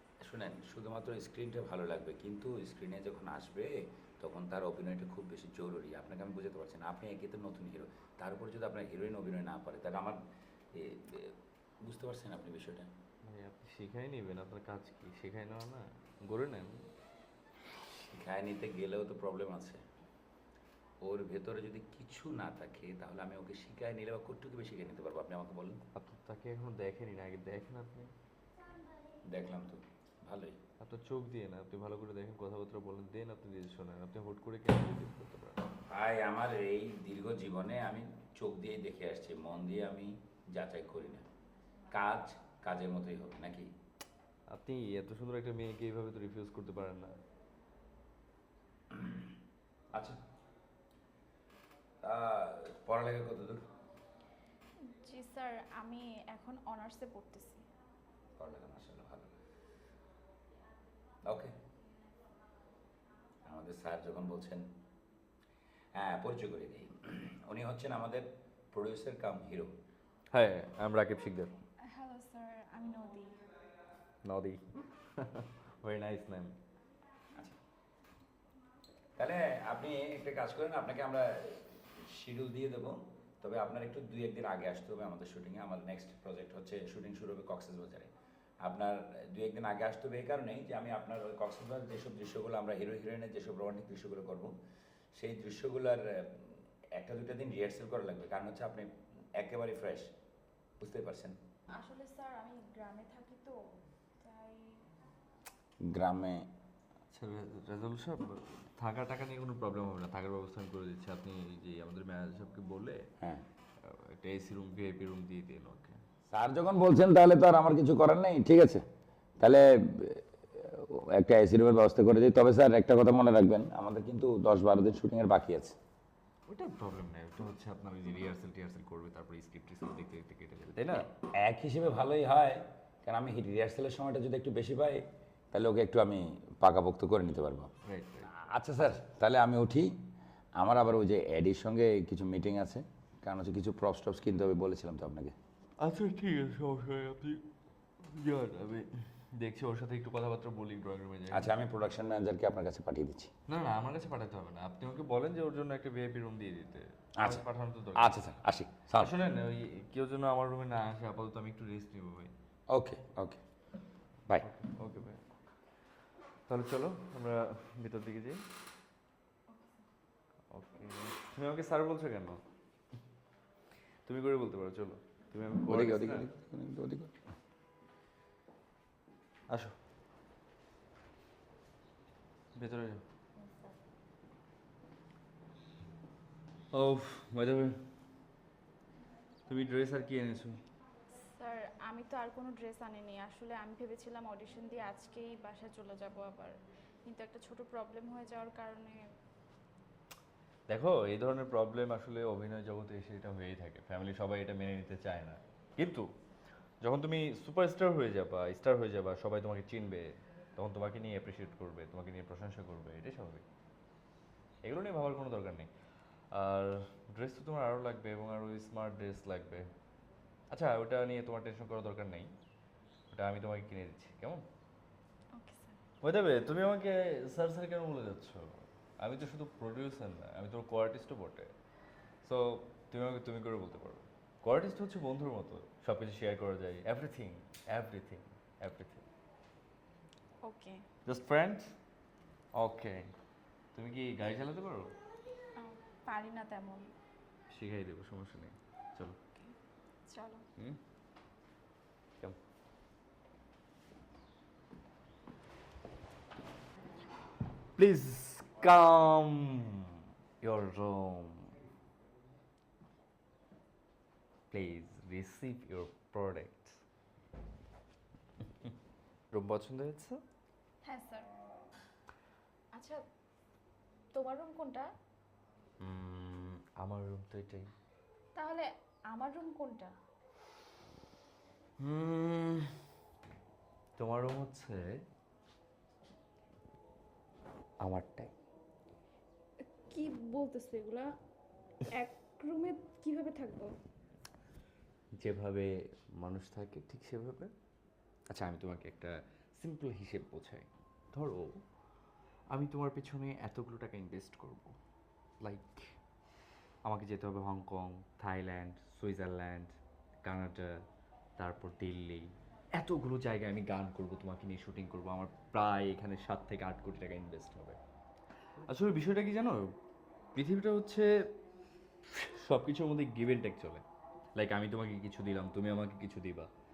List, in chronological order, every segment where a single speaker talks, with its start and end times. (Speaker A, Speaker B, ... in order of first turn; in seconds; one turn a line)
Speaker A: 0.2-10.2
Speaker A: 10.7-12.9
Speaker B: 13.2-16.8
Speaker A: 17.9-19.8
Speaker A: 21.0-25.8
Speaker B: 25.9-28.1
Speaker A: 29.3-30.6
Speaker B: 30.8-35.6
Speaker A: 35.9-41.2
Speaker A: 41.9-43.7
Speaker B: 44.5-47.1
Speaker A: 48.9-49.3
Speaker A: 52.0-53.6
Speaker C: 54.9-57.6
Speaker A: 58.4-59.3
Speaker A: 61.2-61.5
Speaker A: 63.5-64.6
Speaker A: 66.0-69.7
Speaker B: 70.3-71.5
Speaker C: 71.9-73.3
Speaker B: 74.2-74.6
Speaker B: 75.2-76.5
Speaker A: 79.2-88.1
Speaker A: 88.6-94.5
Speaker A: 95.2-100.1
Speaker A: 100.8-101.3
Speaker C: 101.7-103.6
Speaker C: 104.2-104.9
Speaker A: 105.8-106.5
Speaker B: 107.1-113.0
Speaker B: 113.8-116.0
Speaker A: 116.3-118.8
Speaker A: 119.4-125.8
Speaker B: 126.5-131.0
Speaker A: 131.1-137.7
Speaker B: 137.8-138.3
Speaker A: 138.2-139.9
Speaker A: 140.6-145.3
Speaker B: 145.8-147.4
Speaker B: 148.0-151.5
Speaker A: 151.3-153.3
Speaker B: 153.5-158.2
Speaker A: 157.2-157.4
Speaker A: 157.9-159.1
Speaker B: 158.9-162.3
Speaker A: 162.7-163.4
Speaker B: 164.4-165.2
Speaker B: 166.5-168.4
Speaker C: 169.5-169.8
Speaker B: 170.5-172.4
Speaker B: 174.1-176.3
Speaker A: 175.7-177.1
Speaker B: 179.5-179.7
Speaker B: 182.5-183.0
Speaker B: 186.7-187.8
Speaker B: 189.5-190.6
Speaker C: 191.3-196.5
Speaker C: 197.1-199.0
Speaker B: 200.7-206.1
Speaker B: 206.8-213.4
Speaker B: 214.6-215.7
Speaker B: 216.3-219.7
Speaker B: 220.5-222.3
Speaker B: 223.1-224.4
Speaker C: 225.3-225.8
Speaker B: 226.0-231.5
Speaker B: 232.2-239.0
Speaker C: 240.4-240.8
Speaker B: 241.1-241.7
Speaker B: 242.6-243.1
Speaker B: 243.7-244.9
Speaker C: 245.6-246.9
Speaker B: 247.5-249.2
Speaker C: 250.1-250.4
Speaker B: 257.8-259.8
Speaker B: 260.4-261.6
Speaker B: 264.5-266.8
Speaker B: 269.3-270.2
Speaker C: 270.8-271.3
Speaker C: 272.7-273.0
Speaker C: 274.1-274.9
Speaker B: 275.8-277.7
Speaker C: 278.4-279.9
Speaker B: 281.8-282.7
Speaker B: 284.0-285.0
Speaker B: 287.8-288.3
Speaker C: 289.7-291.1
Speaker C: 291.9-293.7
Speaker B: 295.2-297.5
Speaker B: 298.3-301.5
Speaker B: 302.5-304.7
Speaker B: 305.4-305.9
Speaker B: 306.8-309.7
Speaker B: 310.2-310.7
Speaker B: 311.4-317.8
Speaker B: 318.6-319.7
Speaker B: 320.3-321.1
Speaker B: 322.1-323.8
Speaker B: 324.4-326.5